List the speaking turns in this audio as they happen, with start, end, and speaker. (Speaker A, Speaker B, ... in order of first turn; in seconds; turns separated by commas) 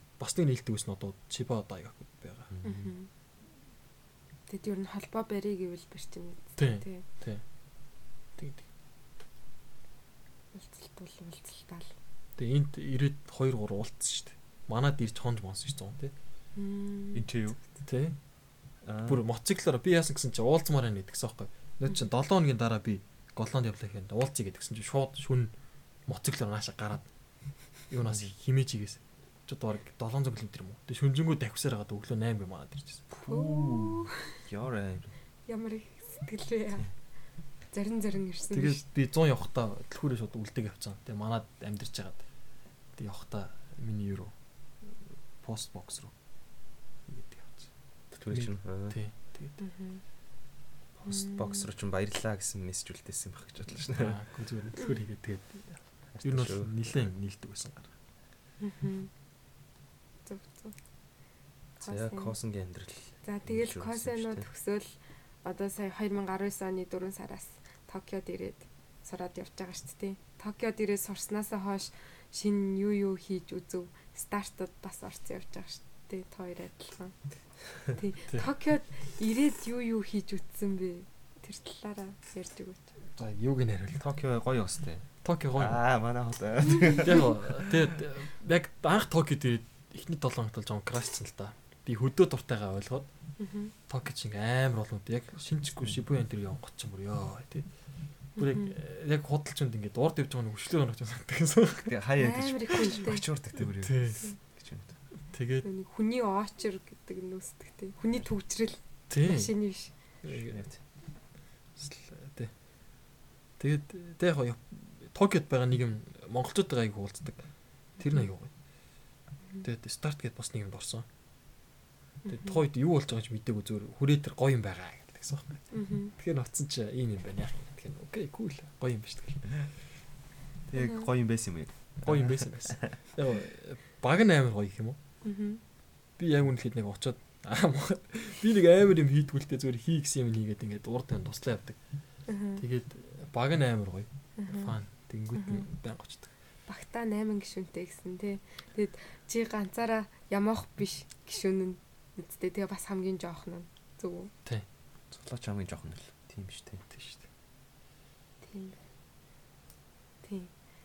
Speaker A: 0.2-2.5, Speaker B: 2.5-2.9, Speaker C: 2.6-3.1, Speaker C: 4.5-7.0, Speaker A: 6.6-7.4, Speaker A: 8.4-8.6, Speaker C: 10.5-11.9, Speaker A: 12.4-16.1, Speaker C: 16.6-17.3, Speaker B: 17.1-17.6, Speaker A: 17.9-18.2, Speaker B: 18.8-19.2, Speaker A: 19.1-25.5, Speaker A: 26.1-27.1, Speaker A: 27.9-33.2, Speaker B: 33.2-35.1, Speaker C: 33.3-34.4, Speaker C: 35.5-36.9, Speaker C: 37.7-38.8, Speaker A: 38.5-42.2, Speaker A: 43.0-44.3, Speaker A: 45.4-46.1, Speaker A: 47.1-47.7, Speaker B: 48.1-49.0, Speaker A: 48.3-49.6, Speaker C: 49.6-50.0, Speaker B: 51.0-54.2, Speaker C: 51.1-51.7, Speaker A: 54.0-57.9, Speaker B: 56.1-57.0, Speaker C: 58.6-59.1, Speaker C: 60.2-60.8, Speaker C: 61.8-62.4, Speaker B: 61.9-64.5, Speaker C: 63.2-77.1, Speaker C: 77.9-82.9, Speaker A: 83.1-84.0, Speaker B: 84.0-87.8, Speaker A: 85.2-85.8, Speaker A: 87.0-93.1, Speaker C: 93.4-93.7, Speaker A: 93.9-97.7, Speaker C: 98.4-98.7, Speaker A: 98.4-102.0, Speaker B: 101.9-104.9, Speaker C: 102.2-103.3, Speaker A: 103.8-104.3, Speaker A: 105.3-105.7, Speaker C: 105.6-109.9, Speaker A: 109.1-109.5, Speaker A: 110.2-110.6, Speaker B: 110.3-110.8, Speaker A: 111.8-112.5, Speaker A: 113.6-117.5, Speaker A: 118.0-118.5, Speaker A: 119.6-121.0, Speaker A: 122.3-125.6, Speaker C: 122.3-122.6, Speaker C: 125.7-126.1, Speaker A: 126.2-129.5, Speaker B: 130.7-133.0, Speaker C: 130.8-131.1, Speaker A: 132.0-135.0, Speaker C: 135.2-135.6, Speaker A: 136.2-141.8, Speaker C: 142.3-142.6, Speaker A: 142.6-146.3, Speaker C: 144.4-144.7, Speaker C: 145.4-145.6, Speaker C: 146.7-154.3, Speaker B: 155.1-156.8, Speaker A: 156.9-157.2, Speaker C: 158.4-158.8, Speaker C: 160.2-160.5